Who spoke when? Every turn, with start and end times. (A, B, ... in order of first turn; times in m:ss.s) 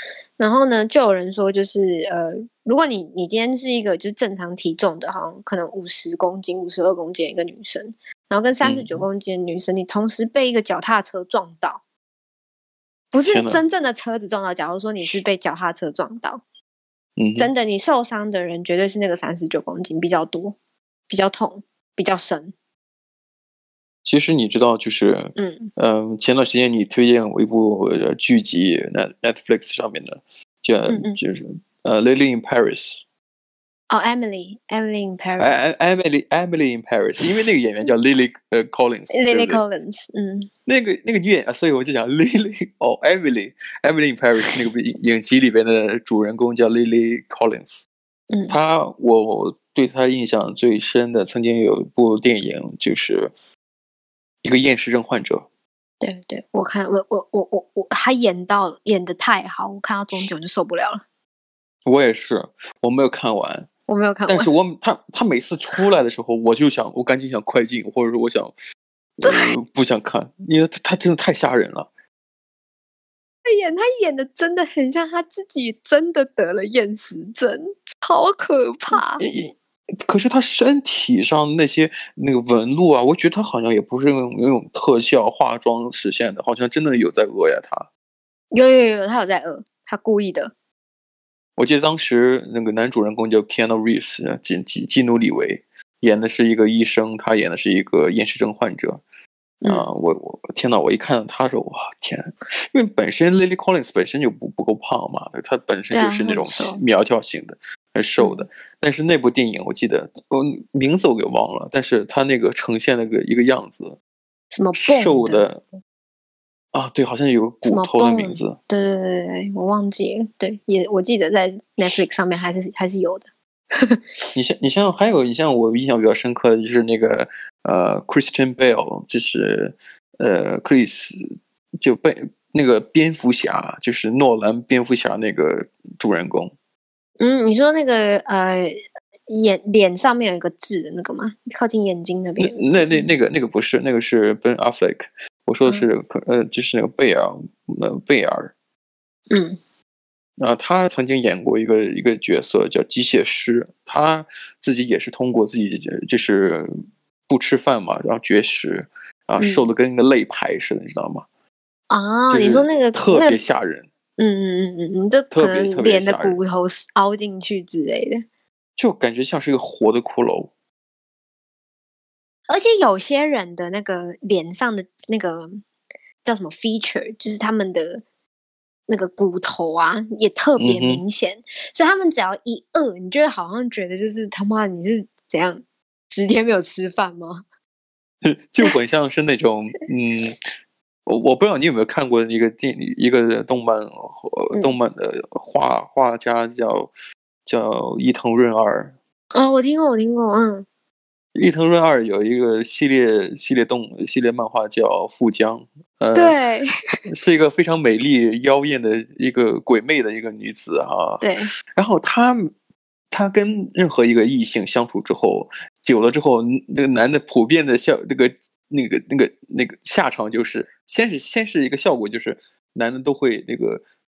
0:00.4-0:11.8 A
0:08.6-0:09.0 B
0:13.1-0:16.4 A
0:13.2-0:13.6 B
0:17.2-0:17.5 B
0:17.4-0:20.6 A
0:21.1-0:22.5 A
0:24.0-0:33.0 B
0:25.4-0:25.7 A
0:30.9-0:31.2 A
0:33.9-0:35.5 A
0:35.4-0:39.6 B
0:39.1-0:40.5 A
0:40.6-0:47.8 B
0:48.3-0:48.5 A
0:48.5-0:53.3 B
0:54.4-0:55.5 B
0:56.0-1:01.0 A
1:01.8-1:03.7 B
1:03.9-1:04.5 A
1:04.3-1:08.5 B
1:09.2-1:11.9 B
1:09.2-1:09.5 A
1:13.4-1:19.2 A
1:18.9-1:27.9 B
1:28.5-1:30.5 A
1:31.6-1:39.0 B
1:39.6-1:39.9 A
1:39.6-1:54.0 B
1:45.9-1:46.8 A
1:48.2-1:48.4 A
1:54.5-1:55.4 A
1:54.7-1:55.6 B
1:56.7-1:58.6 B
1:57.6-2:04.0 A
2:04.3-2:11.2 B
2:11.8-2:16.5 B
2:17.2-2:23.1 A
2:22.4-2:28.5 B
2:29.3-2:29.6 A
2:30.4-2:36.7 B
2:37.3-2:41.2 B
2:39.4-2:39.7 A
2:41.9-2:43.4 A
2:42.3-2:43.9 B
2:44.2-2:48.2 A
2:45.3-2:46.4 B
2:48.8-2:50.5 B
2:52.5-2:55.6 A
2:56.2-2:58.0 A
2:58.9-3:07.4 A
3:00.6-3:01.0 B
3:08.2-3:10.4 B
3:11.1-3:16.9 B
3:17.4-3:18.9 B
3:19.3-3:20.6 A
3:21.4-3:26.4 B
3:26.1-3:26.7 A
3:27.1-3:32.5 B
3:31.2-3:31.5 A
3:33.1-3:43.8 B